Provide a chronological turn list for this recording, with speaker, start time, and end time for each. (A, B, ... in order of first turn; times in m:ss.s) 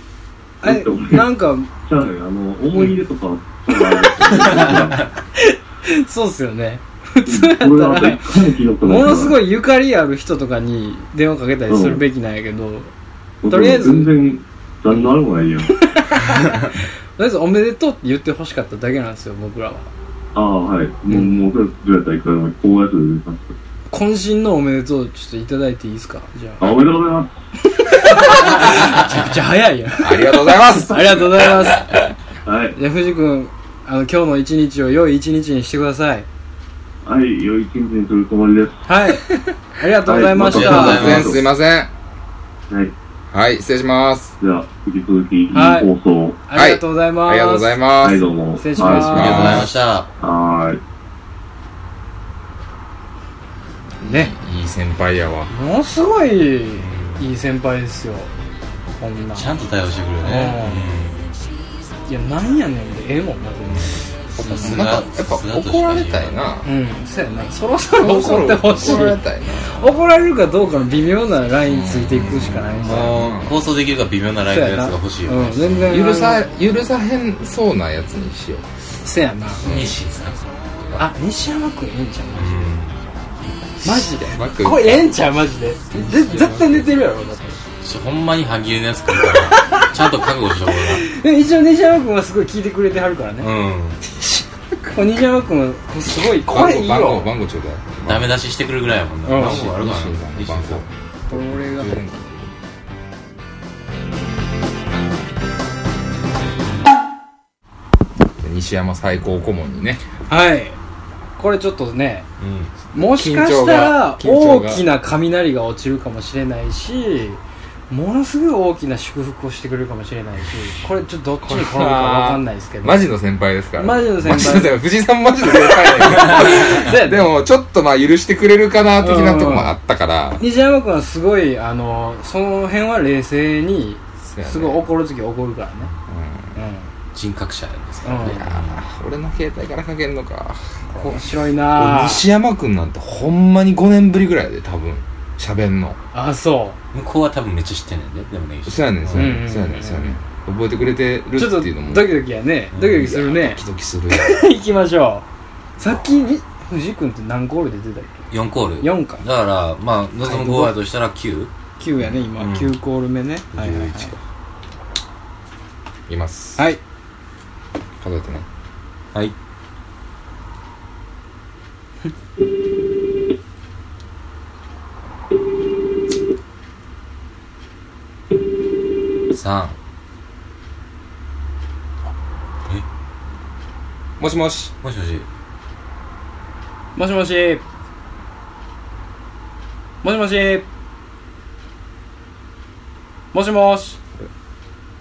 0:00.6-0:01.3 A
0:00.6-0:01.7 B
0:01.8-0:05.0 A
0:04.5-0:04.9 C
0:05.4-0:08.3 B
0:07.2-0:09.4 A
0:08.8-0:12.9 B
0:11.7-0:12.0 A
0:13.4-0:15.7 A
0:13.5-0:14.1 B
0:15.8-0:19.9 B
0:20.3-0:23.5 A
0:21.1-0:21.4 B
0:23.9-0:26.6 B
0:26.6-0:27.3 A
0:27.7-0:31.9 B
0:30.0-0:32.0 D
0:32.4-0:32.8 A
0:32.8-0:36.3 B
0:37.0-0:38.8 A
0:38.9-0:41.1 B
0:40.0-0:41.4 A
0:40.4-0:41.4 C
0:40.8-0:41.9 D
0:43.3-0:44.3 D
0:44.4-0:46.4 A
0:45.5-0:45.9 B
0:46.4-0:47.8 B
0:46.5-0:48.2 D
0:48.0-0:49.7 A
0:48.6-0:49.6 B
0:48.8-0:49.7 D
0:49.0-0:50.1 C
0:50.2-0:50.8 A
0:54.0-0:55.5 D
0:54.0-0:54.3 B
0:55.5-0:58.3 B
0:56.8-0:57.2 C
0:59.0-0:59.5 B
0:59.4-1:01.3 C
1:00.2-1:00.9 B
1:02.1-1:04.0 B
1:03.7-1:06.4 C
1:04.4-1:06.7 D
1:06.6-1:13.1 B
1:08.0-1:09.9 D
1:11.6-1:13.5 D
1:12.3-1:15.9 C
1:14.5-1:16.4 B
1:15.9-1:18.6 D
1:19.0-1:19.6 B
1:19.6-1:21.1 C
1:19.6-1:19.9 D
1:21.0-1:22.6 B
1:22.3-1:23.0 C
1:23.8-1:25.1 D
1:23.8-1:27.6 B
1:25.9-1:27.0 D
1:27.8-1:31.0 C
1:31.0-1:33.5 B
1:33.4-1:34.0 C
1:34.1-1:37.3 B
1:36.5-1:38.4 D
1:38.0-1:40.8 C
1:39.2-1:39.7 B
1:39.3-1:42.5 D
1:41.3-1:42.0 B
1:48.4-1:50.0 D
1:50.3-1:50.8 B
1:51.4-1:52.2 B
1:52.4-1:52.7 C
1:52.9-1:54.8 D
1:52.9-2:03.1 B
2:01.4-2:10.4 D
2:03.8-2:04.8 B
2:06.2-2:07.3 B
2:09.0-2:09.7 B
2:10.4-2:15.9 B
2:14.2-2:14.8 D
2:16.1-2:16.6 D
2:16.5-2:16.9 B
2:17.1-2:18.8 C
2:18.0-2:18.4 B
2:18.2-2:26.0 D
2:20.9-2:22.2 B
2:26.1-2:26.8 B
2:26.9-2:29.3 C
2:28.6-2:32.2 D
2:29.1-2:30.2 B
2:31.4-2:35.2 B
2:32.7-2:33.1 C
2:32.9-2:34.5 D
2:35.8-2:38.2 B
2:38.3-2:41.5 C
2:38.8-2:39.2 B
2:40.2-2:40.8 B
2:41.8-2:44.1 B
2:42.3-2:42.7 C
2:43.5-2:44.1 C
2:43.6-2:44.0 D
2:46.1-2:46.6 D
2:48.0-2:48.4 D
2:59.3-2:59.8 C
3:04.2-3:04.7 D
3:04.8-3:05.2 C
3:07.0-3:07.6 B
3:10.0-3:10.6 B
3:13.3-3:14.0 B